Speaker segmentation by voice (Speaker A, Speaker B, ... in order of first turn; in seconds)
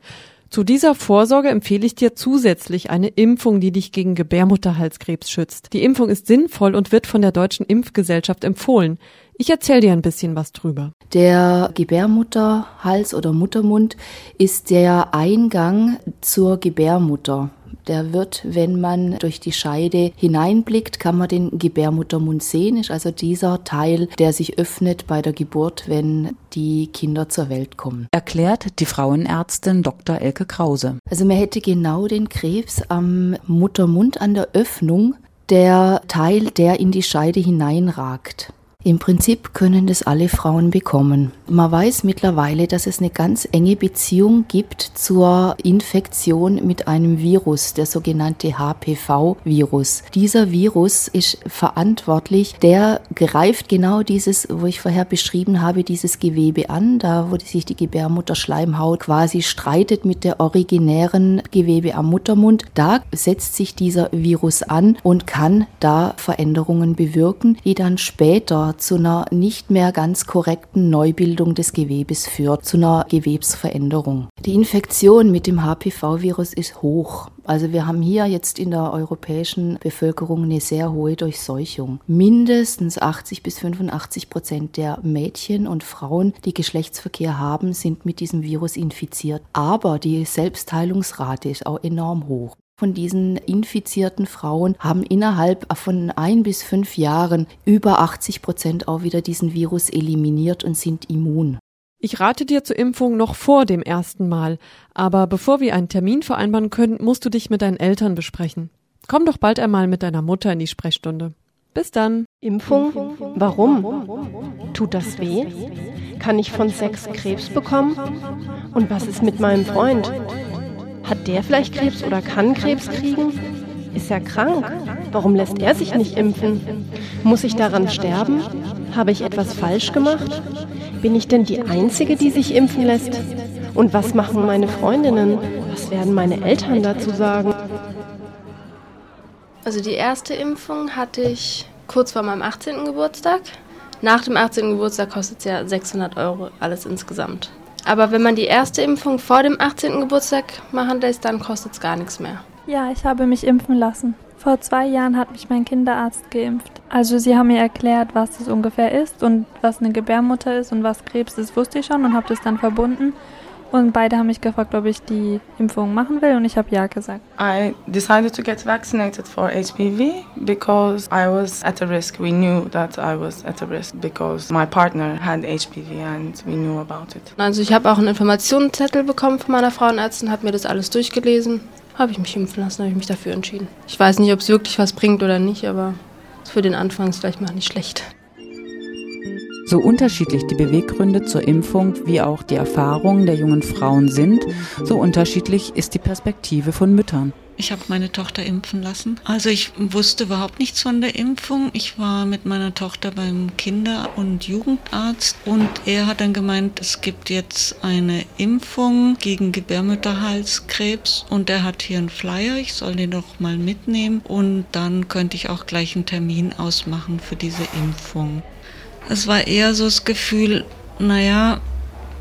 Speaker A: 0.5-10.9, 102.0-112.2
Speaker B: 11.1-28.1, 31.1-101.6
Speaker C: 28.1-31.0, 189.7-197.3
Speaker D: 112.4-114.2, 114.7-118.2, 118.7-120.3, 121.0-123.4, 123.9-130.4, 131.0-137.7
Speaker E: 139.6-152.4, 177.4-188.1
Speaker F: 152.7-163.2, 163.7-167.2
Speaker G: 167.4-177.2
Speaker H: 197.6-218.4, 219.1-221.6